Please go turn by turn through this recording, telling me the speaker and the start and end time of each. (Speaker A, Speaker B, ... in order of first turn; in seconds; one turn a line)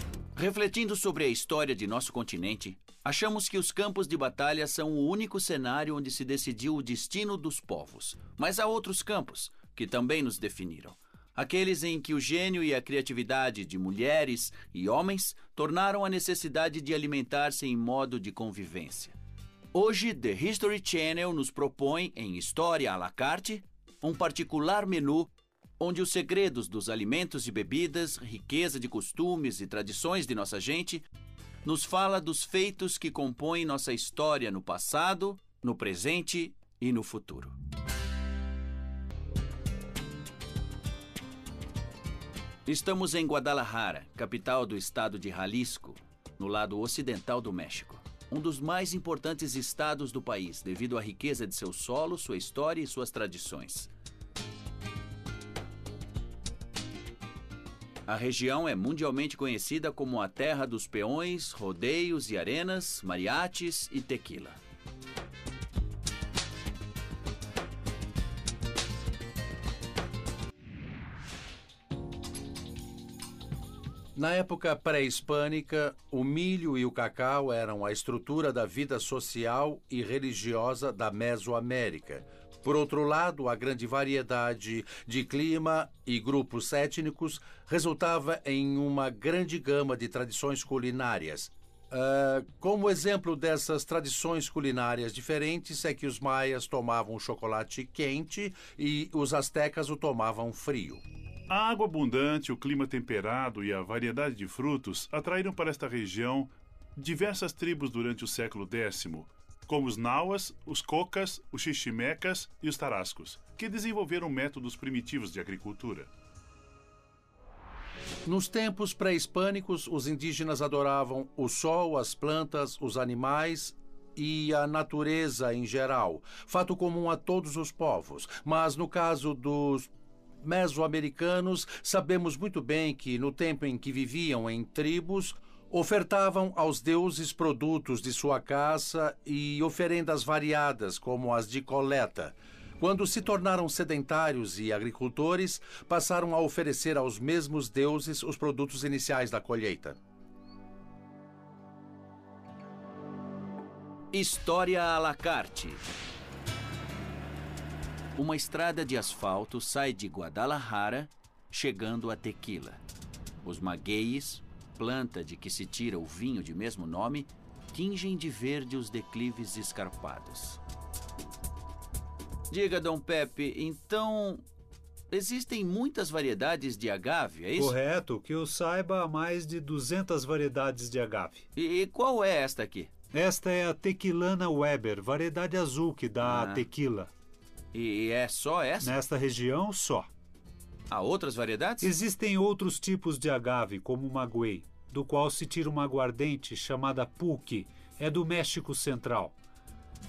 Speaker A: 0.4-19.2
Speaker A: 19.7-31.1
Speaker A: 31.6-37.6
Speaker A: 42.7-53.9
Speaker A: 58.1-64.6
Speaker B: 74.2-101.0
Speaker C: 101.5-116.1
Speaker B: 118.3-129.9
Speaker B: 130.4-150.0
Speaker A: 154.1-155.8
Speaker A: 158.2-162.8
Speaker A: 163.4-170.6
Speaker A: 172.5-174.4
Speaker A: 175.1-177.8
Speaker D: 177.6-181.4
Speaker A: 181.6-182.9
Speaker D: 183.1-187.1
Speaker A: 186.2-186.7
Speaker A: 187.7-188.9
Speaker D: 188.8-190.1
Speaker A: 190.9-191.9
Speaker D: 191.8-199.3